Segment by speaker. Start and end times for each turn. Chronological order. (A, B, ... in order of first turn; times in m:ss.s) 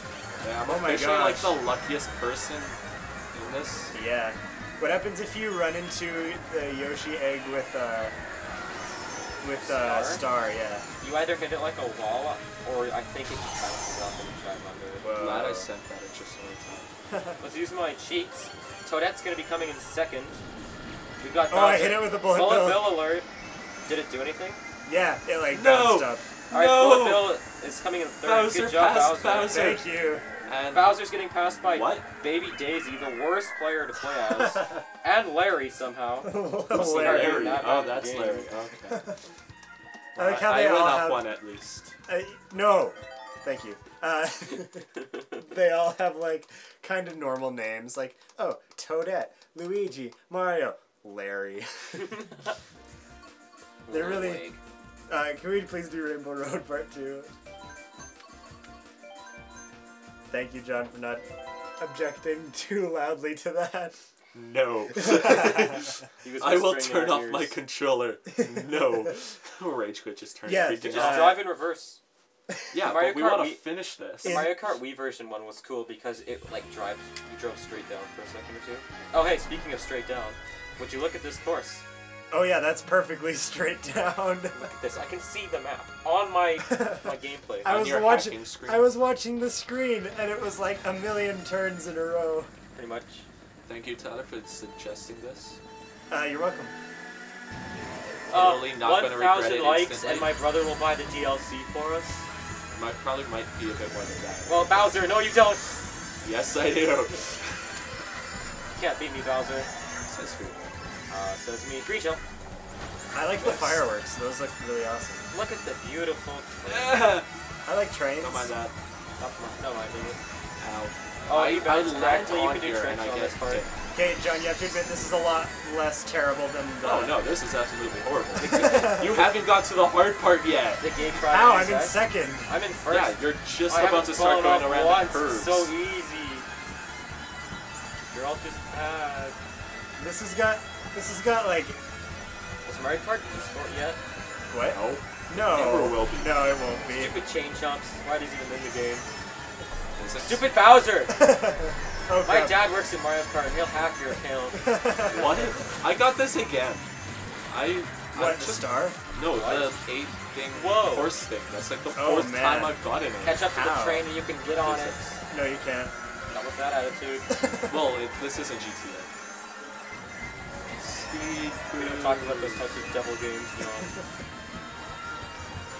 0:00.4-0:02.8 A
0:00.6-0:01.6 B
0:03.3-0:04.0 A
0:03.9-0:08.2 B
0:09.4-0:10.9 B
0:09.6-0:10.3 C
0:11.0-0:15.1 C
0:15.0-0:15.7 B
0:15.1-0:16.9 A
0:17.1-0:17.4 B
0:17.4-0:20.4 C
0:21.2-0:23.3 C
0:21.5-0:23.0 B
0:23.9-0:24.6 C
0:24.9-0:26.4 B
0:25.5-0:27.4 A
0:26.5-0:29.6 C
0:28.2-0:32.0 A
0:29.5-0:30.3 B
0:30.7-0:38.5 C
0:36.2-0:37.6 B
0:36.7-0:39.1 A
0:38.9-0:39.2 B
0:40.2-0:42.0 A
0:40.2-0:41.3 B
0:42.1-0:52.2 B
0:53.9-0:54.6 C
0:53.9-0:54.5 B
0:55.1-0:57.3 B
1:00.3-1:01.2 B
1:01.8-1:04.0 B
1:04.3-1:11.4 A
1:05.2-1:05.4 B
1:06.2-1:07.6 C
1:10.5-1:11.5 B
1:10.9-1:12.0 C
1:12.7-1:14.5 A
1:12.8-1:13.6 C
1:14.2-1:21.8 C
1:14.2-1:14.7 B
1:22.3-1:24.6 B
1:24.5-1:27.8 C
1:26.6-1:27.1 B
1:27.6-1:32.5 B
1:27.6-1:28.9 A
1:32.7-1:33.3 C
1:33.7-1:35.6 A
1:36.1-1:36.7 B
1:38.3-1:40.3 A
1:38.3-1:42.3 C
1:42.7-1:44.9 A
1:44.5-1:45.8 C
1:46.2-1:47.7 A
1:48.7-1:49.7 C
1:50.1-1:50.8 A
1:51.1-1:52.2 C
1:53.1-1:55.2 B
1:53.4-1:53.9 A
1:55.3-1:57.2 C
1:56.7-1:57.3 A
1:57.7-1:58.5 B
1:58.2-1:58.7 A
1:59.2-2:00.2 C
2:00.6-2:03.7 A
2:01.3-2:03.7 C
2:03.9-2:07.2 B
2:06.8-2:10.8 A
2:08.4-2:09.2 B
2:10.8-2:16.5 C
2:11.3-2:12.5 B
2:12.9-2:15.7 A
2:18.1-2:19.4 C
2:20.0-2:21.8 B
2:22.7-2:24.0 C
2:24.5-2:27.2 B
2:24.7-2:26.6 A
2:26.9-2:29.1 C
2:30.0-2:30.5 A
2:30.2-2:31.2 C
2:31.1-2:32.6 B
2:32.2-2:35.5 C
2:34.6-2:35.3 B
2:35.1-2:36.9 A
2:37.5-2:43.4 A
2:38.1-2:39.0 B
2:39.3-2:39.8 C
2:40.5-2:41.2 C
2:41.9-2:42.8 B
2:43.2-2:45.0 C
2:43.5-2:44.1 B
2:44.5-2:45.2 A
2:45.3-2:45.9 B
2:46.3-2:47.3 C
2:47.3-2:47.8 B
2:47.7-2:49.1 A
2:50.7-2:52.6 A
2:51.8-2:53.9 C